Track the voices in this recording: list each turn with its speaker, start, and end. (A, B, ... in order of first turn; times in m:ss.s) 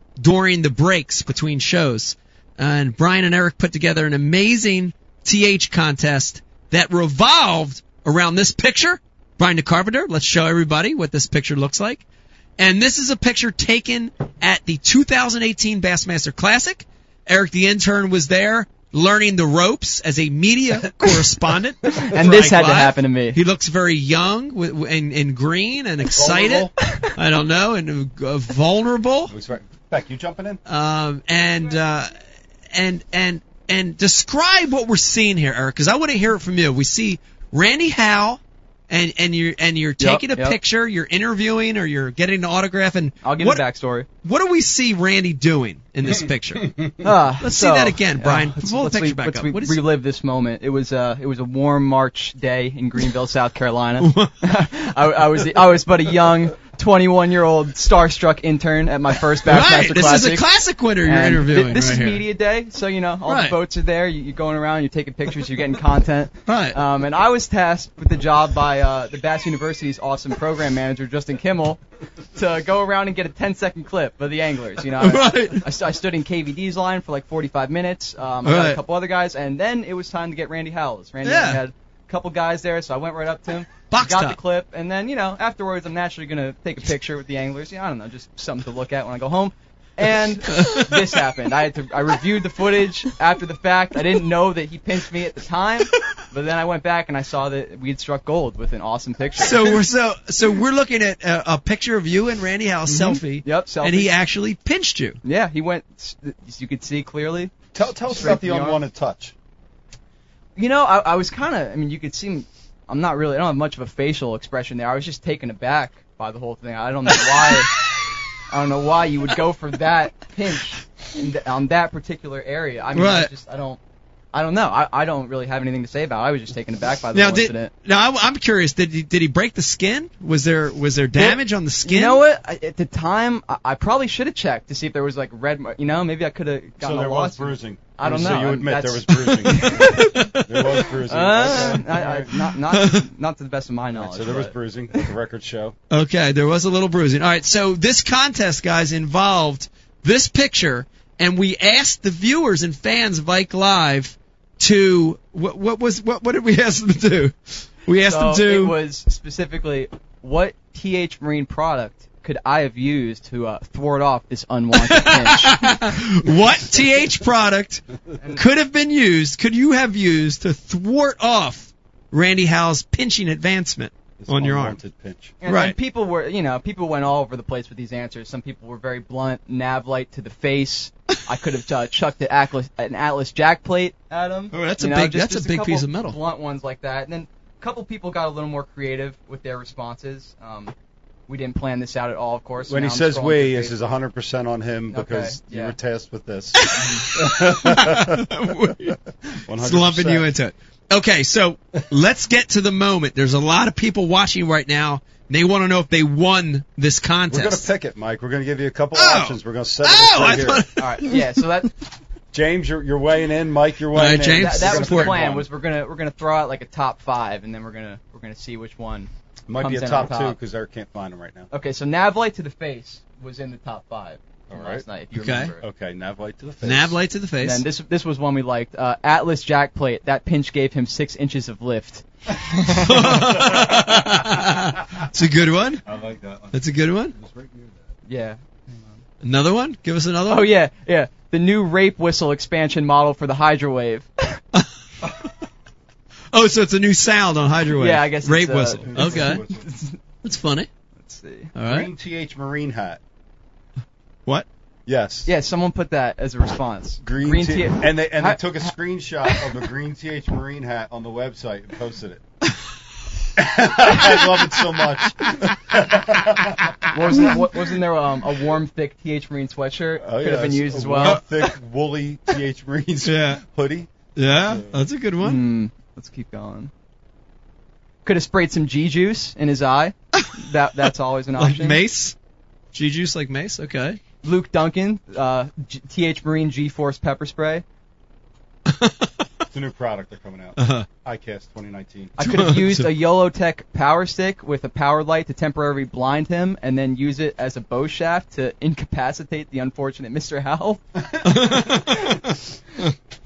0:00.2-0:12.0 A
0:12.6-0:29.3 A
0:21.9-0:23.4 B
0:26.1-0:26.7 C
0:29.3-0:30.6 C
0:30.6-0:32.1 A
0:32.7-0:43.6 A
0:40.0-0:40.6 B
0:43.2-0:44.1 B
0:44.2-0:46.7 A
0:46.0-0:47.2 C
0:47.0-1:00.4 B
0:47.4-0:49.8 A
0:54.0-0:54.3 A
0:59.4-1:02.2 A
1:01.0-1:11.8 B
1:03.2-1:03.6 A
1:06.5-1:06.8 A
1:12.3-1:39.8 B
1:15.0-1:15.6 A
1:18.4-1:18.8 A
1:21.2-1:21.6 A
1:23.9-1:24.4 A
1:30.5-1:31.1 A
1:39.4-1:45.2 A
1:42.9-1:44.1 B
1:45.2-1:47.5 B
1:47.7-1:49.3 C
1:48.0-1:48.8 B
1:50.6-1:57.8 B
1:58.5-2:03.8 B
2:02.9-2:03.3 A
2:04.3-2:07.7 B
2:07.1-2:12.2 A
2:11.1-2:20.4 B
2:16.8-2:22.3 C
2:19.6-2:20.4 A
2:21.1-2:25.0 B
2:22.7-2:23.0 A
2:23.9-2:25.8 C
2:25.9-2:38.8 A
2:38.0-2:45.8 B
2:44.7-2:47.8 A
2:48.2-2:48.4 B
2:48.3-2:54.8 A
2:54.2-2:55.4 C
2:55.4-3:10.7 B
2:55.4-2:55.8 A
3:04.5-3:06.2 A
3:11.3-3:13.8 B
3:12.6-3:18.3 C
3:14.9-3:15.7 B
3:16.5-3:19.0 A
3:19.3-3:20.3 C
3:19.6-3:27.7 A
3:27.3-3:30.7 C
3:28.9-3:31.2 A
3:30.8-3:31.7 B
3:32.3-3:35.5 C
3:33.9-3:35.2 A
3:34.3-3:40.4 B
3:39.5-3:41.5 C
3:41.5-3:45.6 B
3:44.5-3:44.8 C
3:45.1-3:45.5 A
3:45.6-3:47.0 C
3:46.6-3:47.6 A
3:47.4-3:52.0 B
3:52.6-3:53.0 B
3:52.7-3:55.8 A
3:53.1-3:54.4 C
3:55.8-3:57.9 C
3:56.5-3:57.1 A
3:58.1-3:59.0 B
3:59.2-4:00.5 A
4:00.3-4:04.4 B
4:06.3-4:09.4 A
4:07.7-4:10.0 B
4:08.8-4:09.7 C
4:10.2-4:10.7 A
4:11.0-4:11.5 B
4:11.5-4:11.9 A
4:11.6-4:13.0 C
4:14.8-4:15.3 C
4:15.2-4:18.6 B
4:17.0-4:22.2 C
4:23.4-4:27.3 C
4:26.9-4:31.2 B
4:30.0-4:33.9 C
4:31.0-4:31.5 A
4:33.0-4:33.4 A
4:34.2-4:35.4 A
4:34.4-4:34.8 C
4:35.2-4:36.7 B
4:38.0-4:41.8 B
4:41.4-4:42.1 A
4:42.7-4:44.0 A
4:44.2-4:47.6 B
4:48.7-4:49.1 A
4:49.5-4:52.1 C
4:50.6-4:50.9 A
4:52.2-5:00.8 B
4:52.2-4:53.0 A
5:01.0-5:02.2 C
5:01.2-5:02.9 A